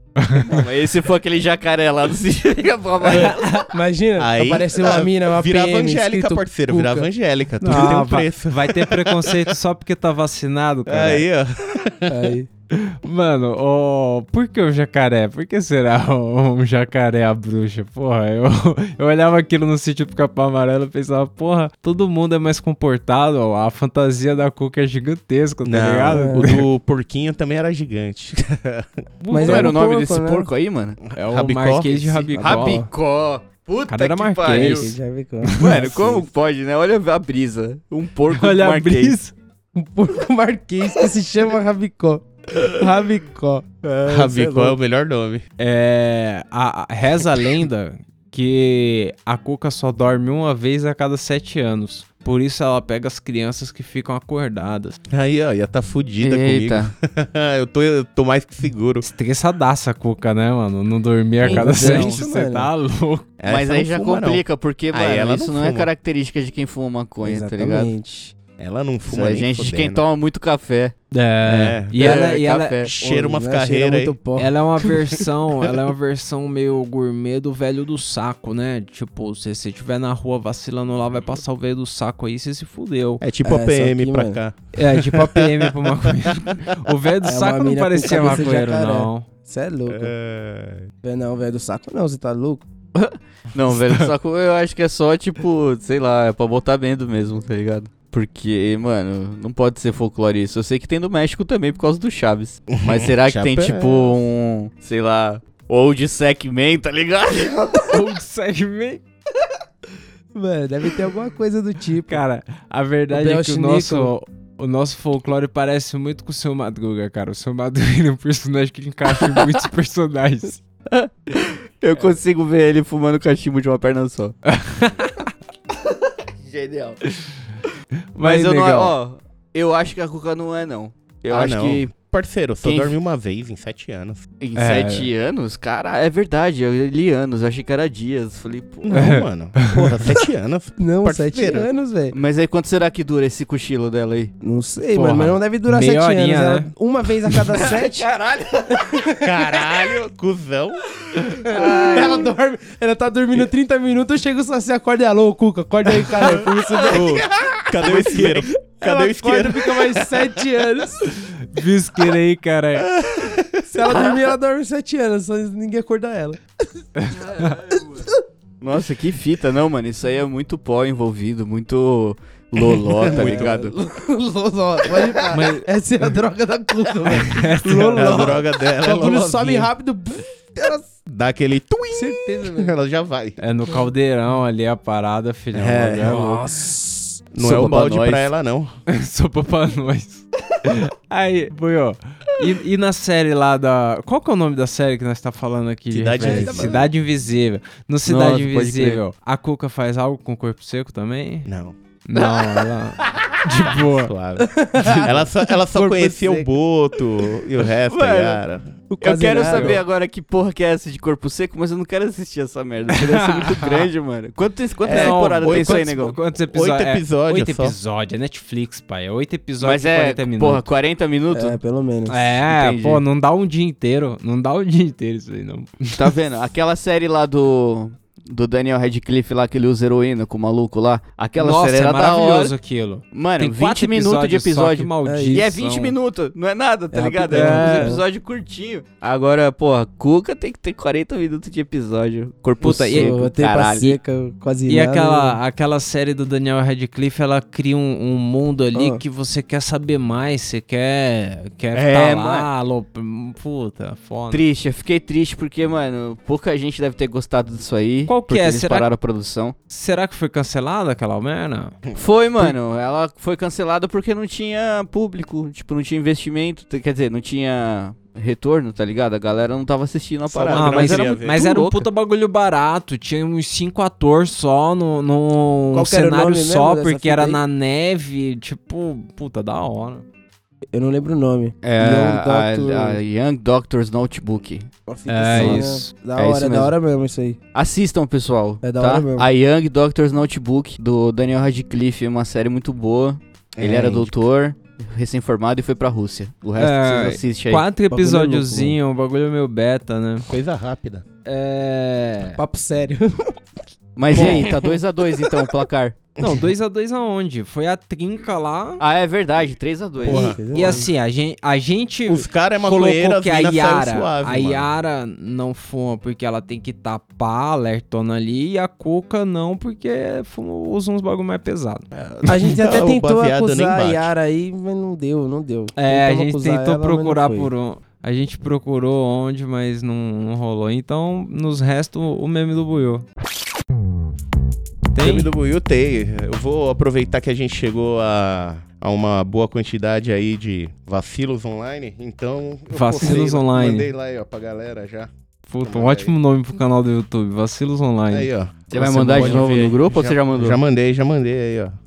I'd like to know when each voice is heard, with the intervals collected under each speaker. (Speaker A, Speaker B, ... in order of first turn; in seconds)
Speaker A: 0.2-0.6, 3.1-3.7, 7.6-11.2, 12.7-26.6, 29.2-29.8, 31.1-32.9, 33.9-35.9, 38.3-39.3, 45.6-55.0, 59.0-63.2, 71.1-72.8, 74.4-83.2, 84.8-89.3, 107.9-109.0, 112.1-120.6, 124.5-125.3, 128.1-128.9, 134.6-135.1, 138.9-139.9, 144.9-146.7, 161.5-162.9, 175.3-175.7, 177.1-178.3, 183.4-186.4, 188.9-201.5, 202.1-204.1, 204.8-205.2, 212.9-213.9, 214.9-220.7, 222.1-226.1, 231.4-235.9, 237.3-238.0, 242.6-243.1, 244.7-254.4, 258.1-258.9, 259.7-261.8, 270.4-280.1, 285.1-285.9, 296.6-300.3, 301.2-302.4, 306.2-308.8, 310.1-321.9, 325.7-333.1, 334.9-335.3, 342.7-343.9, 345.5-349.5
Speaker B: 0.5-3.5, 29.3-31.0, 32.4-34.9, 35.6-39.2, 56.2-56.9, 61.5-62.2, 63.5-67.9, 69.1-71.0, 72.0-72.9, 92.9-108.0, 120.9-124.3, 126.4-127.0, 128.2-131.9, 132.6-132.9, 134.4-139.0, 142.1-144.3, 147.5-148.9, 151.4-152.3, 156.2-158.4, 167.2-168.0, 168.6-173.7, 187.4-188.3, 198.1-199.0, 202.2-202.6, 207.9-208.4, 209.0-216.2, 219.6-221.6, 222.4-223.0, 225.9-232.5, 233.1-244.0, 251.7-252.5, 254.3-259.6, 261.9-271.9, 281.6-284.7, 285.3-286.7, 287.5-297.6, 303.9-306.0, 308.8-310.7, 348.7-350.6
Speaker C: 3.1-7.1, 7.7-8.0, 12.1-12.5, 26.1-26.4, 29.3-30.5, 32.4-32.9, 34.5-36.3, 39.7-44.7, 61.4-62.7, 67.2-68.3, 73.0-75.2, 83.4-84.4, 87.2-90.1, 91.0-92.6, 110.3-112.2, 113.1-114.1, 140.8-142.2, 144.4-148.1, 148.7-149.7, 151.3-157.2, 157.8-161.0, 163.7-166.4, 173.1-180.9, 181.9-182.7, 186.0-187.9, 196.2-196.9, 204.4-206.5, 208.9-209.8, 221.3-222.2, 235.1-235.4, 236.9-238.0, 242.9-245.4, 248.7-249.0, 275.7-277.4, 280.7-283.0, 284.9-287.4, 288.6-289.3, 297.9-298.8, 302.3-303.4, 304.1-304.4, 310.0-310.9, 322.2-327.5
Speaker D: 4.2-9.5, 10.9-12.3, 25.6-28.9, 31.2-32.4, 44.1-45.4, 55.1-59.1, 63.4-65.9, 68.6-70.0, 71.4-72.2, 72.8-74.2, 83.2-86.6, 89.9-90.9, 102.7-104.2, 131.3-134.2, 138.8-141.7, 149.2-150.8, 156.9-160.7, 162.8-164.1, 172.9-173.6, 177.9-179.7, 181.1-183.4, 185.5-186.4, 187.3-188.7, 195.9-196.9, 201.4-201.7, 203.8-208.7, 214.8-217.8, 270.4-271.4, 293.6-294.1, 300.3-301.1, 304.1-304.8, 306.2-306.5, 310.1-310.8, 312.1-314.7, 321.9-324.1, 334.9-345.1, 345.6-346.1, 348.1-351.7